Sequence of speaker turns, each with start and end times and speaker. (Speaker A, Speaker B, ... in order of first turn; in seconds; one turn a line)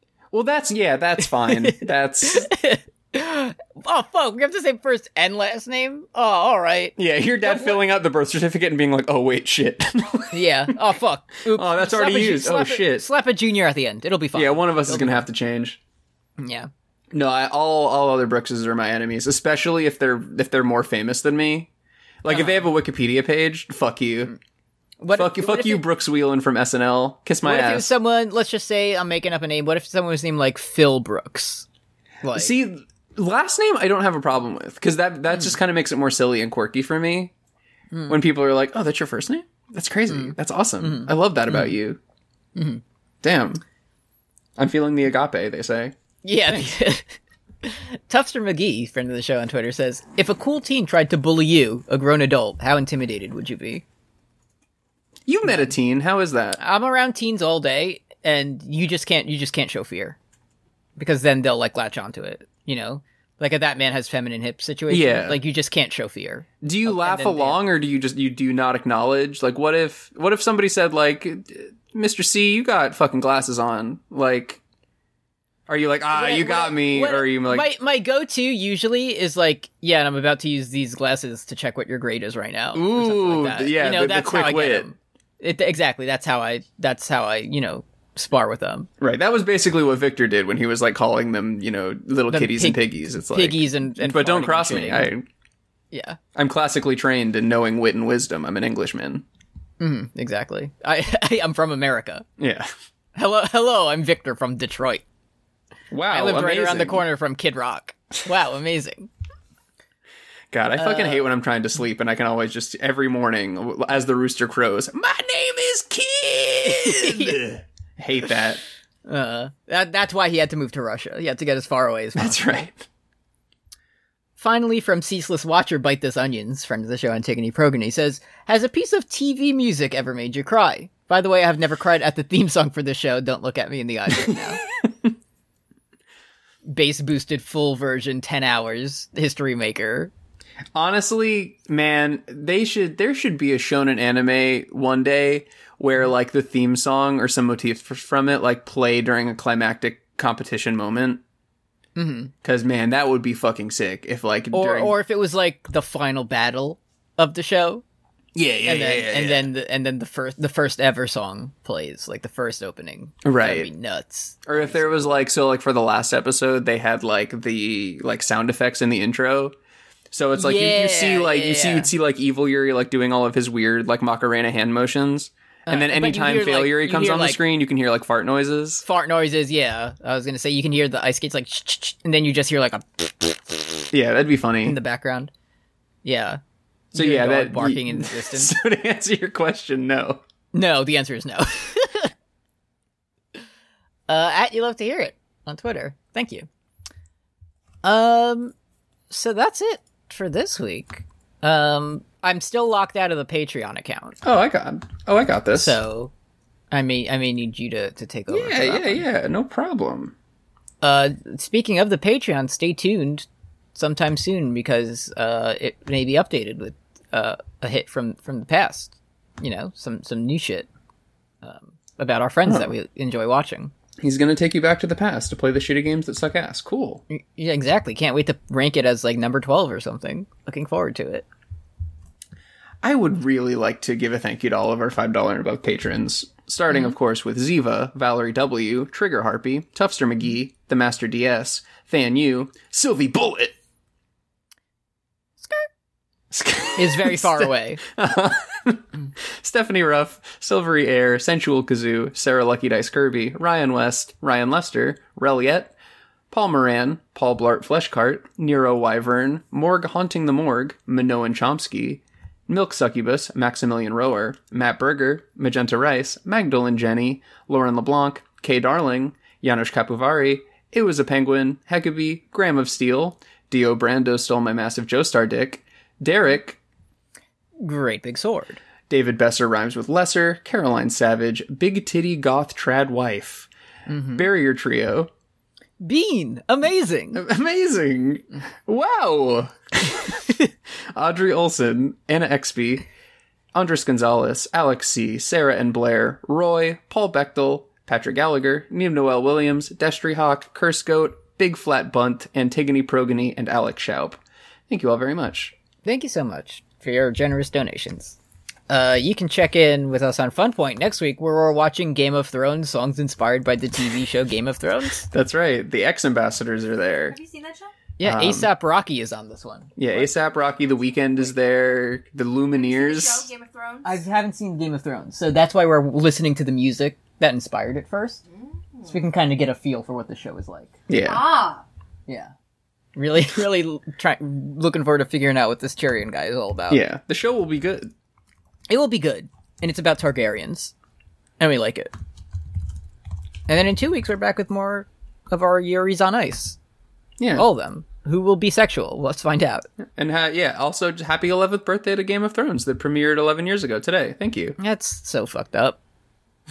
Speaker A: 0.3-2.5
Speaker B: 1.2-7.8
Speaker A: 7.0-10.3
Speaker B: 10.3-15.2
Speaker A: 11.5-13.1
Speaker A: 14.3-15.8
Speaker B: 16.4-16.7
Speaker A: 17.1-21.7
Speaker A: 22.2-24.3
Speaker B: 22.3-22.7
Speaker B: 25.0-25.8
Speaker A: 25.1-27.9
Speaker B: 27.4-31.6
Speaker B: 32.2-32.5
Speaker A: 32.3-37.3
Speaker B: 37.9-38.2
Speaker A: 38.1-42.0
Speaker B: 40.1-41.7
Speaker B: 42.5-42.8
Speaker A: 43.2-43.6
Speaker A: 44.6-46.7
Speaker B: 46.2-47.1
Speaker B: 47.6-53.8
Speaker A: 55.2-56.6
Speaker B: 55.4-55.7
Speaker B: 56.6-60.2
Speaker B: 61.0-67.6
Speaker A: 64.9-65.4
Speaker A: 66.6-74.6
Speaker A: 75.7-77.7
Speaker B: 76.1-88.9
Speaker A: 82.7-84.9
Speaker A: 89.0-95.2
Speaker B: 92.3-95.1
Speaker B: 95.9-96.2
Speaker A: 96.3-99.2
Speaker B: 99.8-102.2
Speaker A: 102.4-102.7
Speaker B: 103.2-105.0
Speaker A: 105.9-107.0
Speaker B: 106.1-109.1
Speaker A: 110.5-118.6
Speaker B: 110.8-111.2
Speaker B: 116.6-117.4
Speaker B: 119.0-122.6
Speaker A: 122.2-122.9
Speaker B: 124.4-134.6
Speaker B: 136.7-140.1
Speaker A: 140.7-151.2
Speaker B: 151.9-152.3
Speaker A: 152.4-154.9
Speaker B: 154.5-157.8
Speaker A: 158.3-159.5
Speaker B: 158.6-165.2
Speaker A: 163.2-163.7
Speaker A: 164.4-169.5
Speaker A: 170.1-178.8
Speaker B: 170.3-171.9
Speaker B: 175.7-177.4
Speaker B: 178.8-183.9
Speaker A: 183.9-184.8
Speaker B: 184.6-185.3
Speaker B: 186.0-186.4
Speaker B: 186.9-188.5
Speaker A: 186.9-190.2
Speaker B: 190.5-192.1
Speaker B: 194.1-196.5
Speaker B: 197.8-198.5
Speaker B: 199.1-204.2
Speaker A: 204.2-205.8
Speaker B: 205.5-206.1
Speaker B: 206.7-209.0
Speaker A: 208.3-210.1
Speaker B: 210.8-220.7
Speaker B: 221.4-223.7
Speaker A: 224.0-227.0
Speaker B: 227.1-231.2
Speaker A: 232.8-243.5
Speaker B: 245.4-245.7
Speaker A: 246.3-255.7
Speaker B: 246.8-247.8
Speaker A: 256.3-276.6
Speaker B: 277.6-278.6
Speaker A: 278.9-283.5
Speaker B: 283.9-284.2
Speaker A: 284.1-285.1
Speaker B: 285.8-287.2
Speaker A: 287.1-290.2
Speaker A: 290.9-292.8
Speaker A: 293.5-305.5
Speaker B: 305.8-308.2
Speaker B: 308.7-315.1
Speaker A: 315.1-317.1
Speaker C: 317.1-317.7
Speaker B: 318.0-320.1
Speaker A: 318.0-318.5
Speaker A: 319.8-323.3
Speaker C: 320.4-320.9
Speaker C: 322.5-324.0
Speaker B: 323.8-328.2
Speaker C: 328.4-329.0
Speaker B: 328.8-330.8
Speaker A: 330.9-331.3
Speaker C: 330.9-331.6
Speaker B: 332.1-332.3
Speaker B: 332.9-336.8
Speaker A: 336.7-337.9
Speaker B: 338.7-340.7
Speaker B: 341.4-341.9
Speaker B: 343.5-346.6
Speaker A: 347.2-347.4
Speaker B: 347.4-349.7
Speaker A: 349.9-354.6
Speaker B: 354.6-355.8